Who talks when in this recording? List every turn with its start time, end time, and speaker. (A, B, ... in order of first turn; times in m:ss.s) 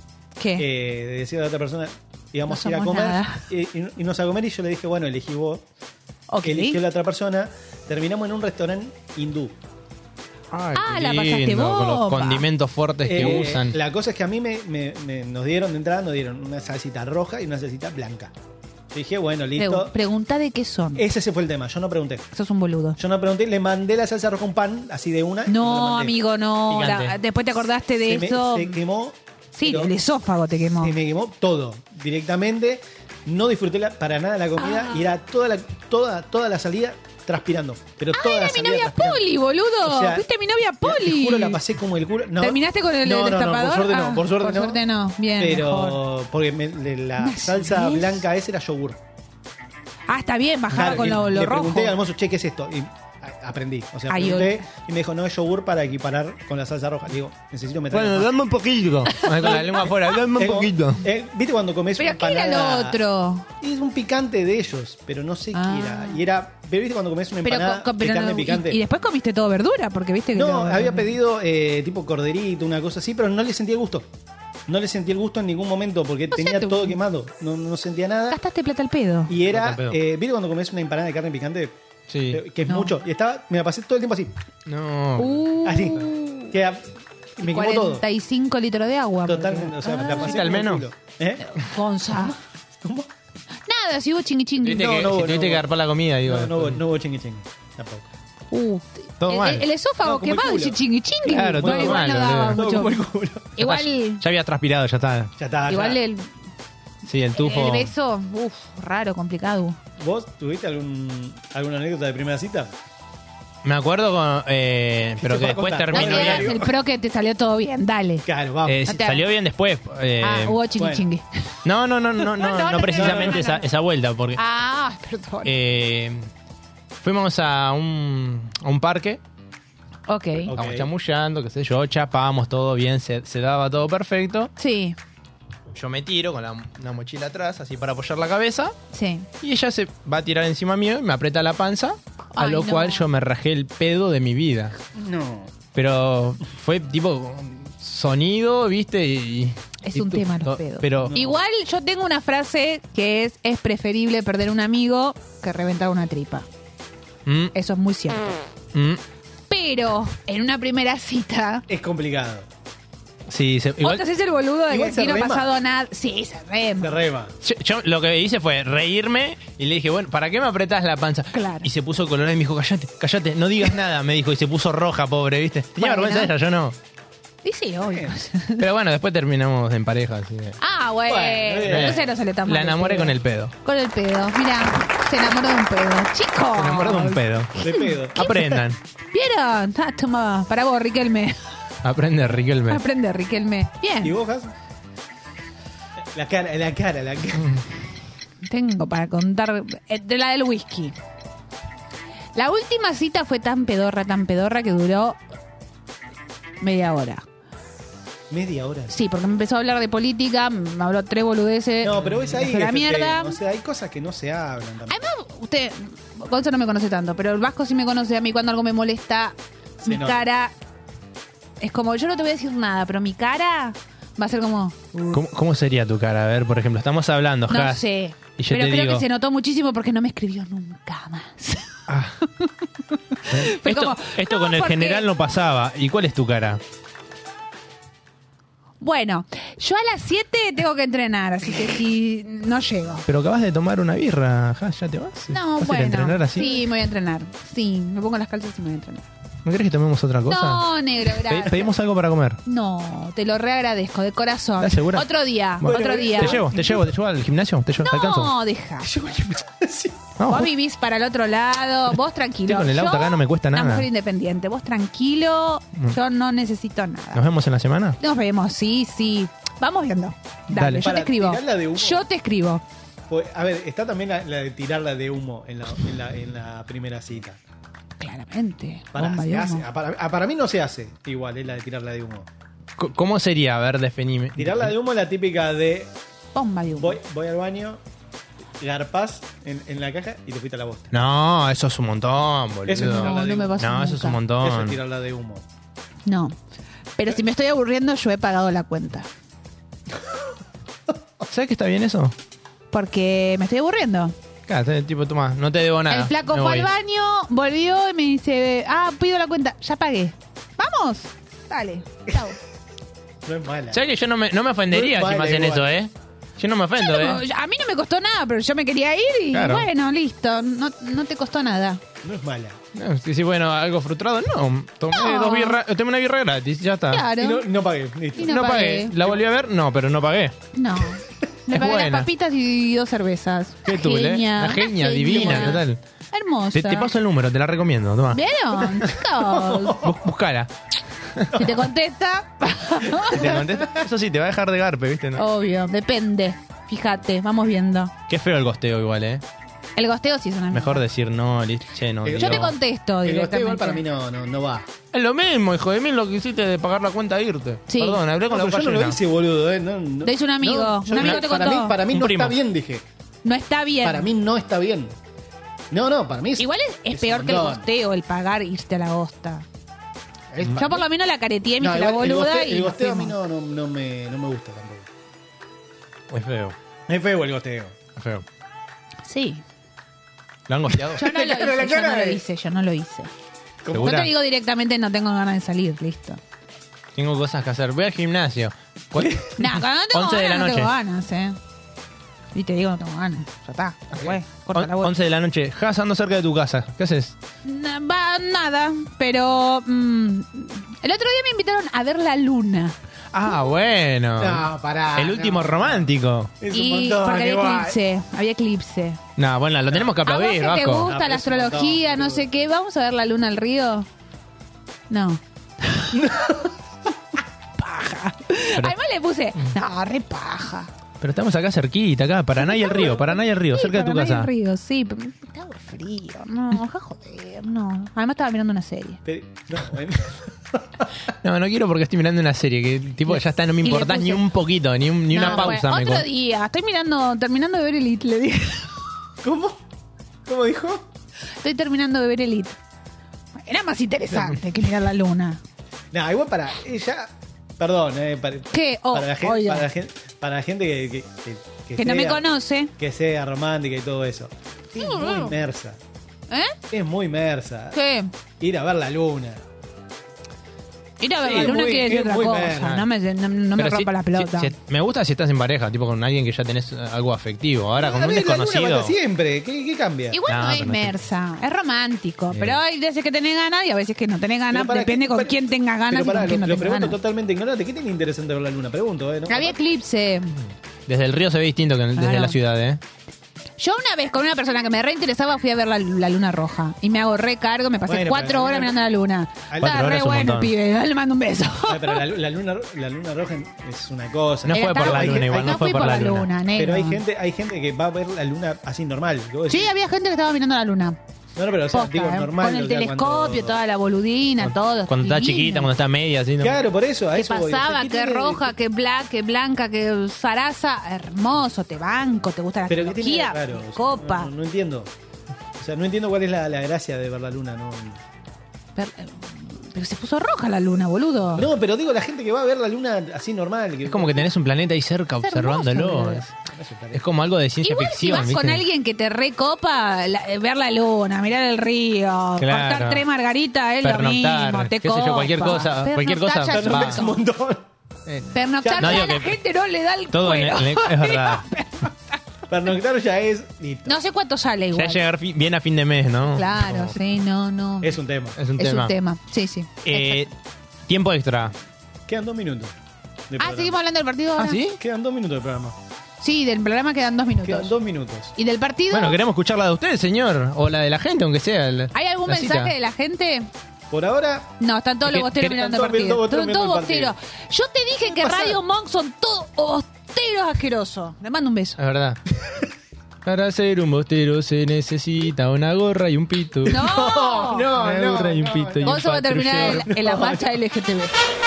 0:00.4-0:00.6 A
0:00.6-0:05.6 B
0:02.5-0:03.4 A
0:06.3-0:06.8 A
0:06.4-0:09.6 B
0:10.5-0:13.8 C
0:10.7-0:12.4 A
0:13.0-0:18.3 B
0:18.9-0:19.9 B
0:19.6-0:21.0 A
0:20.9-0:22.3 B
0:22.3-0:23.0 A
0:23.0-0:26.2 B
0:25.5-0:28.8 A
0:26.7-0:27.2 C
0:28.0-0:29.9 B
0:29.6-0:30.9 A
0:30.7-0:39.2 B
0:34.6-0:35.0 A
0:38.1-0:41.6 A
0:39.8-0:40.3 B
0:40.8-0:44.8 B
0:42.4-0:46.0 A
0:45.4-0:49.0 B
0:47.2-0:48.2 A
0:50.1-0:52.0 A
0:50.7-0:58.4 B
0:54.1-0:54.6 A
0:57.9-1:01.0 C
0:59.1-0:59.8 A
0:59.4-1:03.0 B
1:02.0-1:03.5 A
1:03.6-1:08.8 B
1:05.5-1:06.2 A
1:07.4-1:11.1 A
1:10.3-1:14.1 B
1:14.7-1:18.4 B
1:16.3-1:16.9 A
1:18.3-1:19.3 A
1:19.3-1:21.8 B
1:19.5-1:20.0 C
1:22.1-1:22.4 C
1:22.3-1:24.4 B
1:22.7-1:22.9 A
1:24.6-1:25.5 C
1:25.2-1:26.5 A
1:25.6-1:28.0 B
1:27.4-1:30.4 A
1:29.2-1:31.5 B
1:30.2-1:30.8 C
1:31.4-1:32.3 A
1:32.1-1:33.1 B
1:33.7-1:35.0 A
1:34.6-1:36.8 C
1:34.7-1:35.7 B
1:36.2-1:38.1 B
1:38.5-1:43.0 A
1:39.2-1:39.7 C
1:40.0-1:40.8 B
1:41.2-1:42.6 C
1:41.6-1:43.5 B
1:43.6-1:44.2 A
1:43.6-1:45.3 C
1:45.4-1:46.0 B
1:45.7-1:46.3 A
1:47.0-1:47.9 C
1:47.3-1:49.8 A
1:50.0-1:52.7 B
1:53.6-1:56.5 C
1:55.2-1:56.7 B
1:55.9-1:58.2 A
1:58.2-1:58.9 B
1:58.6-2:00.6 C
1:58.8-1:59.2 A
2:00.2-2:01.2 A
2:00.8-2:01.0 B
2:01.6-2:04.4 C
2:02.3-2:03.6 A
2:02.8-2:03.4 B
2:04.4-2:05.5 A
2:05.4-2:06.3 C
2:07.0-2:09.2 C
2:10.1-2:10.5 A
2:10.4-2:10.9 B
2:10.5-2:14.5 C
2:14.6-2:15.0 A
2:15.7-2:18.7 C
2:18.9-2:19.3 A
2:19.4-2:24.7 C
2:22.3-2:23.0 A
2:24.9-2:25.5 B
2:25.7-2:31.2 C
2:29.8-2:36.4 A
2:31.0-2:31.4 B
2:37.2-2:37.5 C
2:37.5-2:38.4 A
2:38.7-2:39.0 C
2:39.5-2:41.6 A
2:41.7-2:42.5 B
2:43.3-2:44.0 C
2:43.8-2:47.0 A
2:44.7-2:45.5 B
2:46.8-2:47.3 B
2:47.4-2:56.8 C
2:51.3-2:51.7 A
2:55.8-2:56.3 A
2:57.4-2:58.6 A
2:57.8-2:58.2 B
2:58.6-3:00.6 C
3:00.6-3:08.3 A
3:01.1-3:02.1 B
3:01.7-3:03.5 C
3:06.5-3:07.6 C
3:07.6-3:08.6 B
3:08.1-3:08.8 C
3:09.1-3:11.4 A
3:11.8-3:12.8 C
3:12.7-3:14.2 A
3:14.0-3:14.5 B
3:16.1-3:17.6 B
3:18.4-3:20.9 A
3:22.3-3:25.2 A
3:26.6-3:27.2 A
3:28.3-3:28.9 B
3:28.9-3:33.4 A
3:31.8-3:35.0 B
3:34.9-3:40.5 A
3:39.8-3:40.2 B
3:41.6-3:45.2 A
3:45.1-3:47.8 C
3:47.5-3:51.7 A
3:48.4-3:49.0 C
3:51.9-3:52.2 C
3:52.4-3:55.0 A
3:53.3-3:56.6 C
3:58.8-4:03.0 A
4:03.1-4:06.5 C
4:05.3-4:09.0 A
4:09.4-4:12.4 C
4:10.3-4:11.7 A
4:12.4-4:16.4 A
4:14.6-4:15.0 C
4:15.6-4:18.3 C
4:15.6-4:16.9 B
4:17.8-4:18.9 A
4:18.8-4:20.1 B
4:20.2-4:20.5 C
4:20.2-4:27.2 A
4:22.5-4:23.9 C
4:27.1-4:28.0 C
4:28.0-4:32.6 A
4:30.5-4:30.8 C
4:30.8-4:32.0 B
4:33.1-4:37.4 B
4:38.0-4:39.6 A
4:38.9-4:42.3 B
4:42.8-4:44.7 C
4:44.4-4:45.9 B
4:46.3-4:47.0 A
4:46.7-4:47.8 B
4:48.6-4:50.9 B
4:50.9-4:54.8 C
4:52.6-4:53.7 B
4:52.8-4:54.2 A
4:54.4-4:55.4 B
4:56.0-4:56.4 A
4:57.0-4:59.1 A
5:01.3-5:02.1 C
5:02.7-5:04.1 A
5:04.5-5:06.7 C
5:05.9-5:12.4 A
5:13.2-5:13.8 B
5:13.7-5:17.2 C
5:14.7-5:15.7 B
5:16.8-5:21.8 A
5:19.3-5:19.7 C
5:22.0-5:22.6 B
5:22.7-5:27.1 C
5:24.9-5:25.6 A
5:26.9-5:27.4 A
5:27.2-5:29.2 B
5:28.2-5:28.9 A
5:28.2-5:30.4 C
5:30.5-5:36.9 A
5:31.5-5:32.1 C
5:33.6-5:35.8 C
5:35.2-5:35.5 B
5:36.5-5:38.9 C
5:38.1-5:39.8 A
5:39.1-5:40.0 B
5:39.8-5:40.5 C
5:41.3-5:43.4 A
5:43.1-5:45.2 C
5:43.2-5:43.7 B
5:45.2-5:47.9 A
5:48.1-5:49.2 C
5:49.8-5:50.8 A
5:50.5-5:52.5 C
5:52.0-5:54.7 B
5:52.2-5:53.8 A
5:54.9-5:59.0 C
5:57.7-5:58.0 A
5:58.3-6:02.8 B
6:00.0-6:01.8 A
6:01.0-6:01.2 C
6:01.9-6:02.4 C
6:03.2-6:04.1 A
6:03.8-6:05.0 B
6:05.7-6:07.7 B
6:06.4-6:09.4 A
6:10.3-6:10.8 B
6:10.5-6:13.1 A
6:11.6-6:14.9 B
6:16.1-6:16.6 C
6:16.9-6:17.8 B
6:18.0-6:18.2 C
6:19.0-6:19.4 A
6:20.5-6:21.0 C
6:20.7-6:22.2 B
6:21.0-6:23.1 A
6:23.7-6:24.1 C
6:23.7-6:26.2 A
6:27.0-6:30.7 C
6:29.0-6:29.3 B
6:29.4-6:31.4 A
6:32.3-6:34.9 A
6:33.9-6:37.1 C
6:37.4-6:42.7 A
6:43.1-6:46.3 C
6:44.2-6:47.8 B
6:46.5-6:49.0 A
6:49.2-6:50.9 C
6:50.0-6:53.9 A
6:50.8-6:52.3 B
6:54.9-6:55.9 A
6:55.9-6:56.6 B
6:57.6-7:00.7 A
7:01.0-7:04.3 C
7:02.4-7:09.0 A
7:09.0-7:10.9 B
7:11.2-7:16.1 C
7:13.6-7:14.2 A
7:15.1-7:18.8 A
7:19.2-7:19.6 B
7:20.2-7:20.9 B
7:21.4-7:22.6 A
7:23.4-7:25.4 A
7:25.9-7:35.8 B
7:28.5-7:29.7 A
7:31.8-7:32.7 A
7:34.8-7:35.3 A
7:36.3-7:36.5 A
7:36.7-7:37.8 B
7:37.7-7:38.1 A
7:38.4-7:39.4 B
7:41.0-7:44.5 A
7:41.2-7:42.7 B
7:41.3-7:42.8 C
7:43.6-7:48.9 C
7:47.8-7:50.2 B
7:50.1-7:57.0 A
7:50.3-7:51.0 C
7:52.3-7:52.6 C
7:54.5-7:59.6 B
7:59.3-8:00.3 A
8:00.9-8:02.8 C
8:02.0-8:02.4 A
8:03.6-8:12.0 A
8:07.9-8:08.7 B
8:09.5-8:09.9 B
8:09.6-8:10.5 C
8:11.6-8:15.8 B
8:14.4-8:16.3 C
8:14.5-8:17.0 A
8:16.6-8:19.7 B
8:19.5-8:21.0 A
8:21.4-8:23.6 B
8:21.7-8:25.7 A
8:24.9-8:26.6 C
8:26.4-8:28.5 B
8:27.1-8:34.3 A
8:32.7-8:34.9 B
8:35.6-8:38.0 B
8:38.8-8:41.5 A
8:41.3-8:44.3 B
8:43.8-8:46.3 C
8:45.2-8:46.2 A
8:46.4-8:47.0 B
8:46.9-8:48.6 C
8:47.6-8:57.2 A
8:52.4-8:53.0 C
8:53.8-8:57.0 C
8:56.5-8:57.7 B
8:58.3-9:02.2 A
8:58.6-8:59.1 B
8:58.8-8:59.4 C
9:00.1-9:01.5 C
9:02.5-9:04.0 B
9:03.8-9:05.0 A
9:04.7-9:07.0 C
9:06.3-9:08.0 A
9:07.8-9:08.4 B
9:08.4-9:08.9 C
9:08.6-9:10.2 A
9:09.8-9:10.3 C
9:10.9-9:11.5 C
9:12.1-9:12.7 B
9:13.3-9:13.8 B
9:13.4-9:14.6 A
9:14.4-9:14.8 C
9:14.8-9:15.8 B
9:16.2-9:17.7 A
9:17.4-9:18.3 B
9:18.4-9:19.2 A
9:18.9-9:22.7 C
9:21.9-9:23.5 A
9:23.9-9:24.5 B
9:24.6-9:31.8 A
9:25.1-9:25.5 C
9:25.4-9:27.1 B
9:28.1-9:28.6 B
9:31.8-9:32.2 C
9:33.2-9:39.9 C
9:36.7-9:39.0 B
9:36.7-9:37.7 A
9:38.8-9:41.1 A
9:39.5-9:40.5 B